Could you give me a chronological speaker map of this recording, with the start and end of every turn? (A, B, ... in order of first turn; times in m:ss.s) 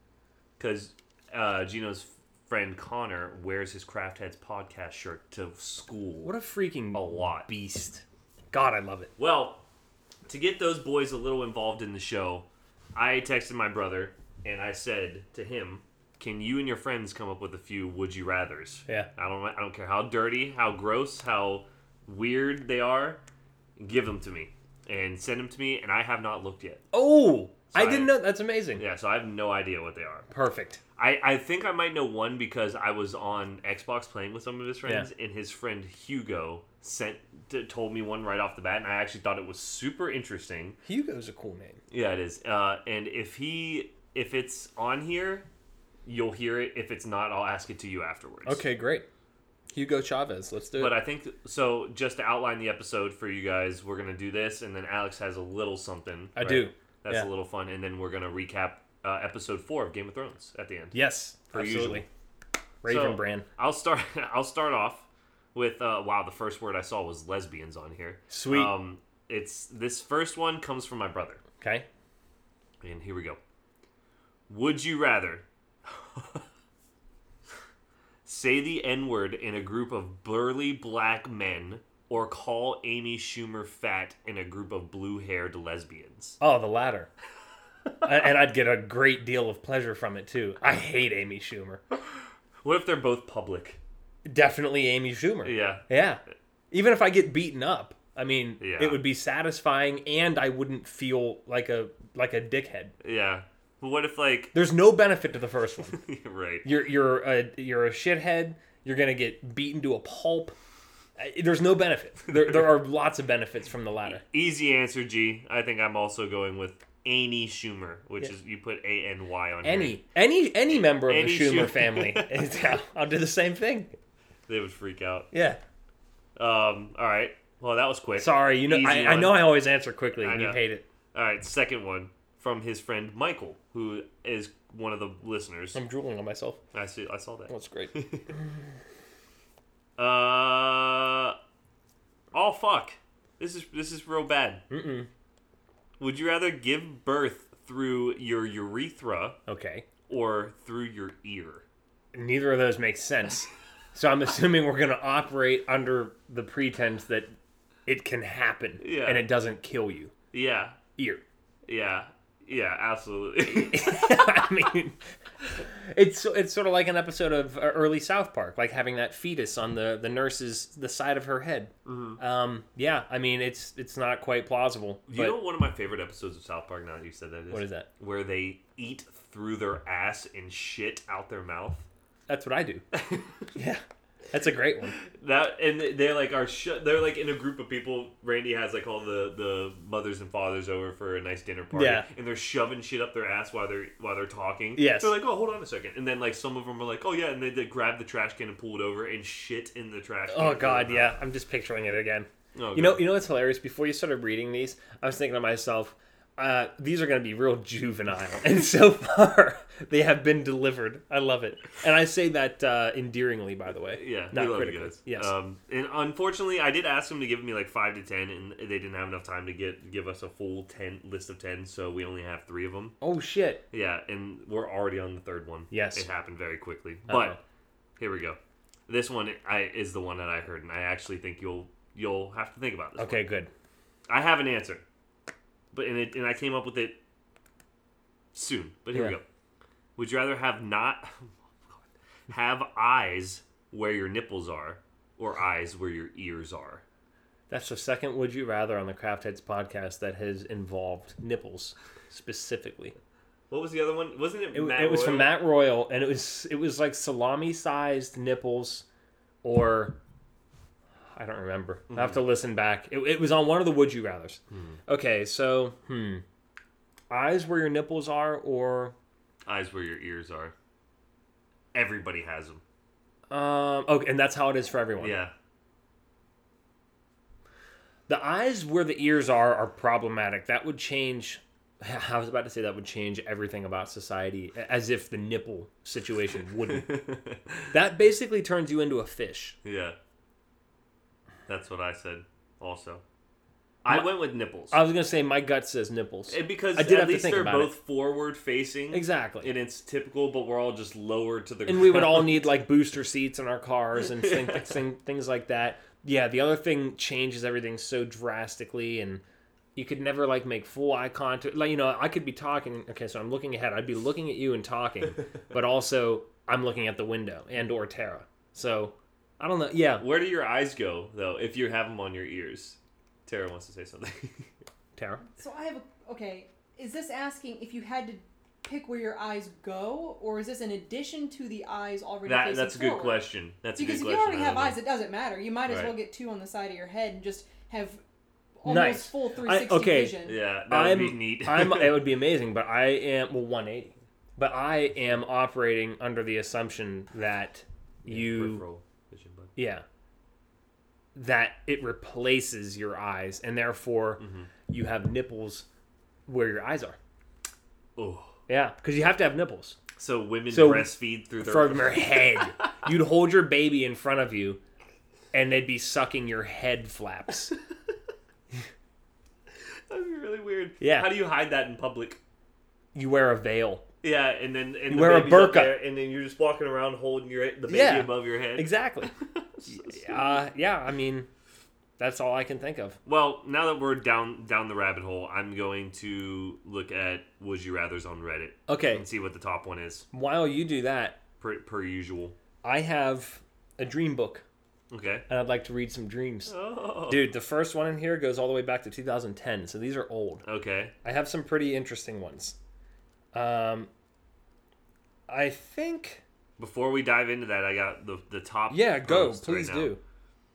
0:00.6-0:06.3 A
0:06.2-0:09.1 B
0:06.9-0:07.5 A
0:09.2-0:09.6 A
0:10.2-0:23.2 A
0:23.8-0:26.8 A
0:26.9-0:28.8 B
0:27.7-0:28.1 A
0:28.7-0:30.3 A
0:30.3-0:30.8 B
0:31.0-0:40.8 A
0:40.8-0:41.8 B
0:41.9-0:45.5 A
0:46.0-0:48.6 A
0:48.4-0:49.1 B
0:49.7-0:51.0 B
0:50.8-1:01.0 A
0:56.4-0:57.3 B
1:00.9-1:02.1 B
1:01.5-1:02.0 A
1:02.8-1:03.5 B
1:02.8-1:11.4 A
1:08.3-1:08.8 B
1:11.6-1:11.8 B
1:12.8-1:13.4 A
1:14.5-1:16.4 A
1:18.2-1:26.4 A
1:26.4-1:27.1 B
1:28.0-1:31.8 B
1:32.6-1:33.8 A
1:34.2-1:42.9 B
1:35.4-1:35.8 A
1:38.6-1:39.0 A
1:43.0-1:44.5 A
1:44.5-1:46.0 B
1:45.9-1:46.7 A
1:46.6-1:50.5 B
1:51.2-1:54.2 B
1:54.1-2:00.0 A
1:59.6-2:03.9 B
2:00.7-2:02.4 A
2:04.5-2:05.3 A
2:05.3-2:05.6 B
2:06.4-2:09.5 A
2:08.2-2:10.8 B
2:10.1-2:10.6 A
2:11.1-2:15.8 A
2:15.7-2:16.6 B
2:16.7-2:18.3 A
2:17.5-2:18.4 B
2:20.0-2:21.4 A
2:22.3-2:24.6 A
2:24.7-2:25.1 B
2:26.0-2:29.4 A
2:29.5-2:29.8 B
2:30.1-2:31.6 A
2:32.1-2:37.3 B
2:37.8-2:40.1 B
2:38.8-2:39.2 A
2:40.3-2:40.8 A
2:41.0-2:41.2 B
2:41.6-2:44.5 A
2:43.5-2:45.0 B
2:45.6-2:55.4 B
2:51.8-2:52.2 A
2:55.1-3:01.9 A
2:57.5-2:57.9 B
3:02.3-3:02.8 B
3:02.9-3:03.5 A
3:03.5-3:05.0 B
3:05.0-3:21.1 A
3:11.7-3:12.1 B
3:14.8-3:15.1 B
3:20.3-3:35.3 B
3:22.5-3:23.0 A
3:33.9-3:43.0 A
3:43.0-3:43.6 B
3:43.7-3:47.4 A
3:45.7-3:46.1 B
3:47.1-3:47.4 B
3:48.0-3:53.3 A
3:53.0-3:53.5 B
3:54.1-3:54.8 A
3:55.7-3:57.0 A
3:58.3-3:59.2 A
4:00.0-4:06.8 A
4:07.5-4:13.0 B
4:13.5-4:15.3 A
4:14.5-4:18.8 B
4:19.4-4:20.0 B
4:21.1-4:26.2 B
4:21.9-4:22.2 A
4:24.5-4:24.8 A
4:27.1-4:28.9 B
4:29.4-4:30.5 A
4:31.7-4:32.6 A
4:33.3-4:35.2 B
4:35.0-4:35.3 A
4:38.1-4:47.1 B
4:46.6-4:47.7 A
4:47.7-4:49.6 B
4:49.6-4:50.0 A
4:51.5-4:53.0 A
4:53.8-4:54.8 A
4:54.7-4:57.7 B
4:56.3-5:02.4 A
4:58.9-4:59.5 B
5:01.6-5:09.2 B
5:04.0-5:04.8 A
5:09.8-5:20.0 B
5:20.0-5:24.5 A
5:25.0-5:25.2 B
5:25.4-5:38.0 C
5:32.2-5:34.8 A
5:35.7-5:36.0 A
5:38.6-5:40.4 C
5:38.6-5:48.6 B
5:40.2-5:42.1 A
5:48.0-5:49.5 A
5:49.6-5:49.8 B
5:51.1-5:55.7 B
5:54.2-5:54.5 A
5:56.3-5:57.0 B
5:58.0-5:58.4 A
5:58.5-5:59.8 B
6:00.0-6:02.9 A
6:00.5-6:04.6 B
6:05.3-6:07.5 B
6:09.9-6:12.2 A
6:10.8-6:11.1 B
6:12.9-6:13.8 B
6:14.0-6:20.4 A
6:14.9-6:15.8 B
6:17.7-6:19.1 B
6:19.6-6:21.3 B
6:22.0-6:23.0 B
6:23.0-6:30.1 A
6:28.7-6:29.0 B
6:30.1-6:31.2 B
6:31.4-6:32.4 A
6:32.6-6:34.4 B
6:34.9-6:35.2 A
6:35.3-6:36.5 B
6:36.5-6:37.3 A
6:37.1-6:40.4 B
6:40.4-6:40.9 A
6:41.0-6:42.6 B
6:43.3-6:43.9 B
6:45.3-6:46.2 B
6:46.6-6:49.9 A
6:48.7-6:50.0 B